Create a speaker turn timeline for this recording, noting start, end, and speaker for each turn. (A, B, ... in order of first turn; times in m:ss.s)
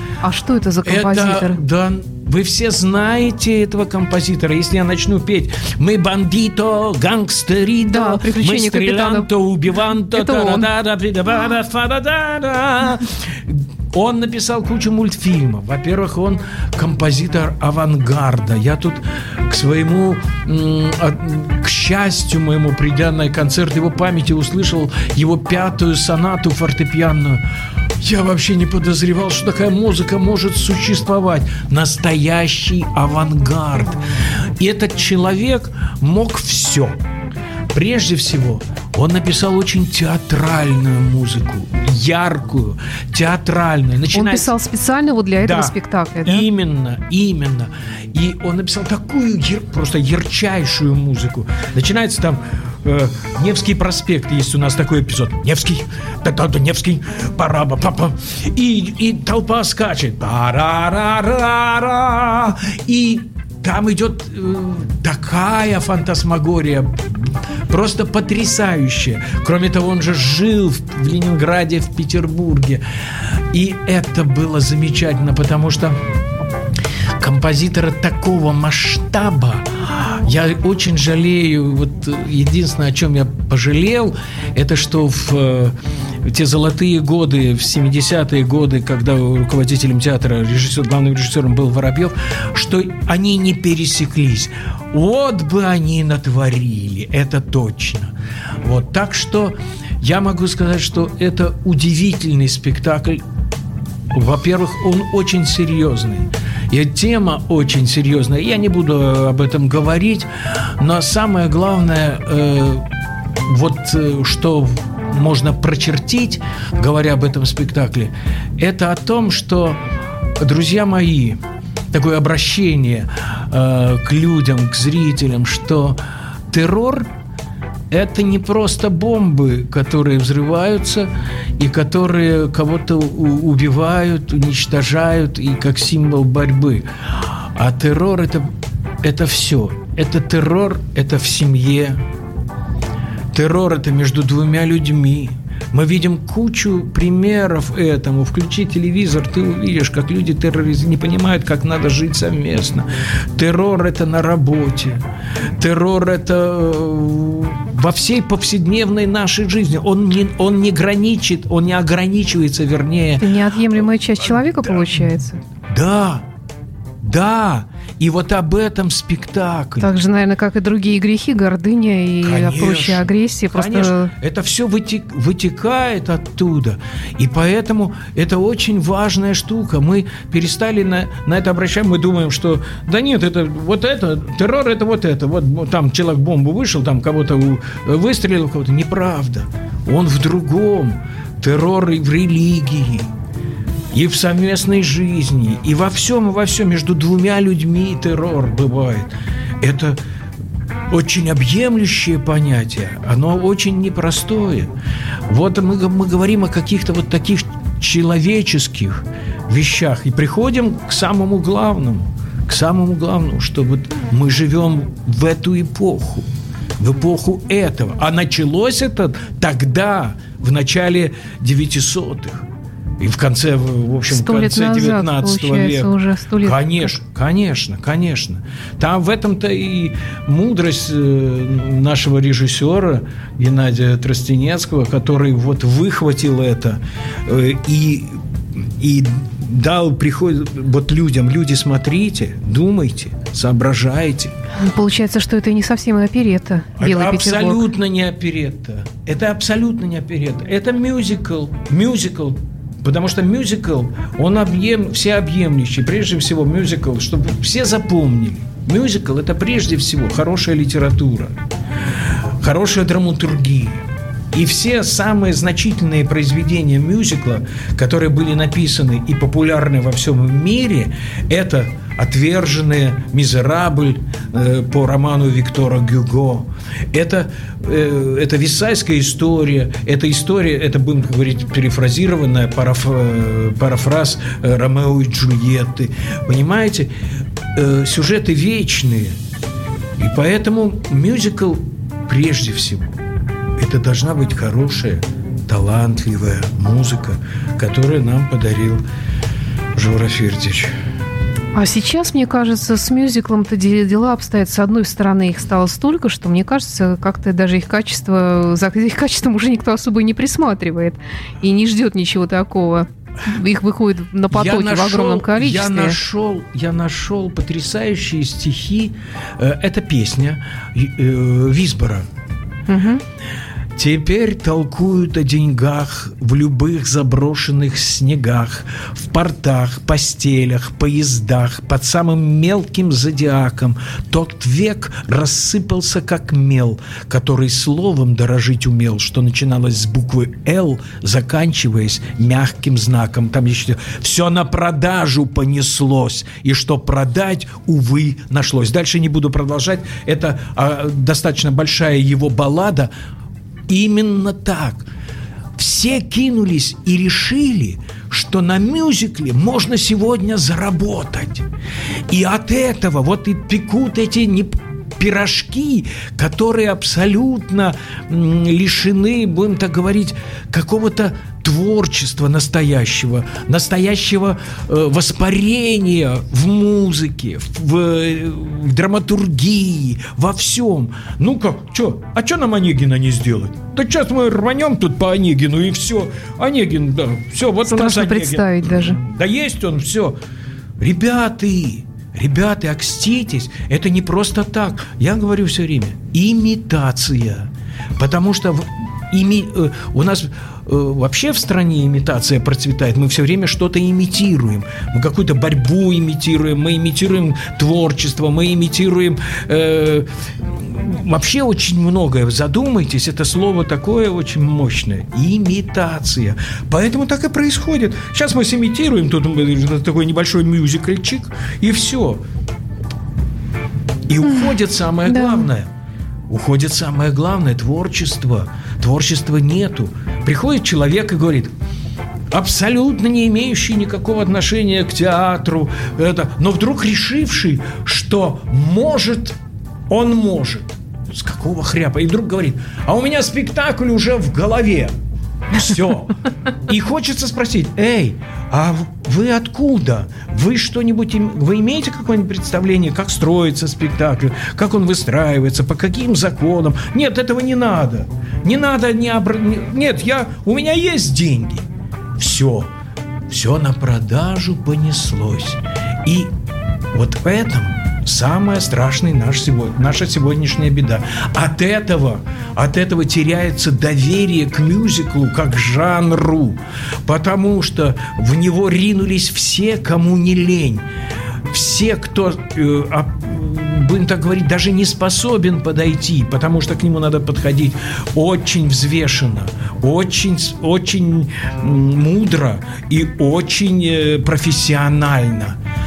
0:00.2-0:01.6 A
0:00.8-0:27.4 B
0:07.8-0:09.3 A
0:10.1-0:10.7 A
0:28.0-0:34.0 B
0:34.6-0:37.0 B
0:37.7-0:44.5 B
0:44.1-0:46.4 A
0:45.4-1:12.8 B
1:13.5-1:16.0 B
1:17.2-1:43.2 B
1:44.1-1:52.9 B
1:53.4-1:59.8 B
2:00.4-2:01.4 B
2:01.9-2:07.1 B
2:07.9-2:18.5 B
2:19.0-2:22.0 B
2:23.3-2:35.0 B
2:35.6-2:43.3 B
2:43.2-2:45.4 A
2:44.3-2:45.0 B
2:45.7-2:46.2 B
2:47.0-2:49.9 B
2:49.8-2:54.1 A
2:52.2-3:13.1 B
3:13.9-3:20.0 B
3:20.9-3:24.7 B
3:25.3-3:42.5 B
3:43.0-4:04.3 B
3:44.1-3:47.0 A
4:04.6-4:07.6 A
4:06.8-4:21.4 B
4:22.4-4:23.8 B
4:24.3-4:46.9 B
4:47.5-4:49.2 B
4:50.0-4:52.9 B
4:53.6-4:58.8 B
4:59.8-5:00.7 B
5:01.6-5:16.0 A
5:14.3-5:22.1 B
5:22.7-5:23.0 A
5:23.8-5:52.9 B
5:53.7-5:54.9 B
5:55.6-6:01.5 B
6:02.1-6:30.2 B
6:27.6-6:29.0 A
6:30.8-7:02.2 B
7:04.1-7:05.7 B
7:05.1-7:05.5 A
7:06.3-7:11.5 B
7:12.3-7:19.4 B
7:19.9-7:24.9 B
7:25.5-7:26.2 B
7:26.7-7:42.7 B
7:43.3-7:46.3 B
7:46.9-8:00.9 B
8:01.5-8:15.6 B